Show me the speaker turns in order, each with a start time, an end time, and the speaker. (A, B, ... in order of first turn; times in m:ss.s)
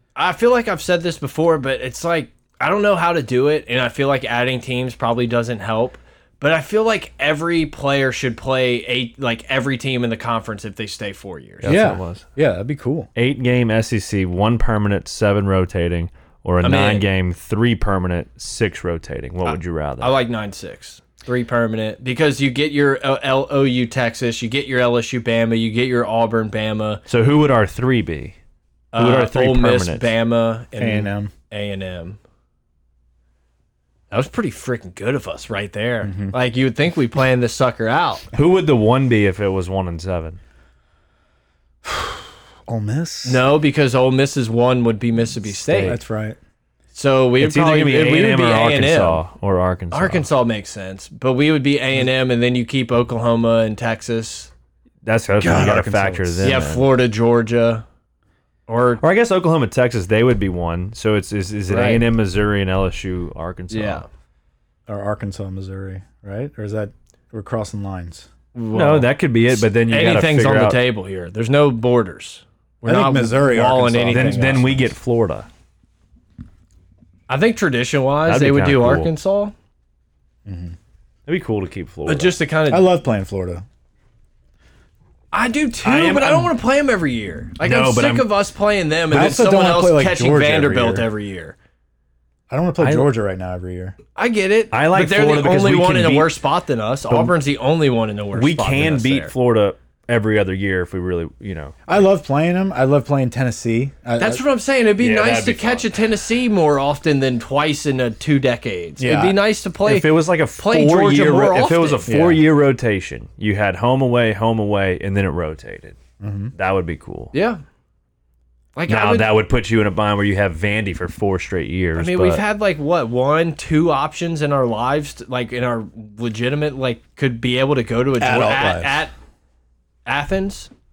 0:00.1-0:11.8 A
0:11.6-0:12.2 B
0:11.6-0:13.1 C
0:13.2-0:20.2 B
0:16.6-0:17.0 A
0:19.4-0:27.0 A
0:27.1-0:28.3 B
0:28.9-0:32.2 A
0:29.0-0:30.1 B
0:30.8-0:31.3 C
0:34.1-0:38.3 A
0:36.0-0:36.3 C
0:38.3-0:40.4 B
0:41.8-0:43.4 C
0:43.2-0:46.0 A
0:45.7-0:46.0 B
0:45.8-0:46.4 C
0:46.9-0:49.2 A
0:47.4-0:50.2 B
0:49.9-0:54.5 A
0:55.0-0:56.9 B
0:55.4-0:56.6 C
0:56.4-0:57.8 A
0:58.7-0:59.0 A
0:59.0-1:04.0 B
1:01.7-1:02.0 A
1:03.7-1:04.0 A
1:04.9-1:08.3 C
1:08.5-1:14.6 A
1:08.7-1:10.8 B
1:12.8-1:14.9 C
1:14.1-1:15.5 B
1:17.3-1:19.5 A
1:18.2-1:19.1 B
1:20.4-1:20.7 C
1:21.2-1:22.4 B
1:22.0-1:22.9 A
1:22.7-1:23.6 C
1:25.3-1:31.6 A
1:25.8-1:26.5 B
1:27.6-1:28.3 B
1:29.1-1:31.0 C
1:32.5-1:34.0 C
1:32.8-1:33.1 B
1:34.2-1:39.3 A
1:34.7-1:36.3 B
1:38.3-1:42.0 B
1:41.9-1:44.4 C
1:44.2-1:52.1 A
1:45.0-1:45.9 B
1:49.0-1:49.4 C
1:49.8-1:56.0 B
1:52.1-1:52.4 C
1:56.2-1:56.5 C
1:56.5-1:57.3 B
1:57.3-1:57.6 A
1:58.7-1:59.3 A
1:58.9-2:02.4 B
2:02.0-2:09.1 A
2:08.2-2:09.0 C
2:10.0-2:10.7 A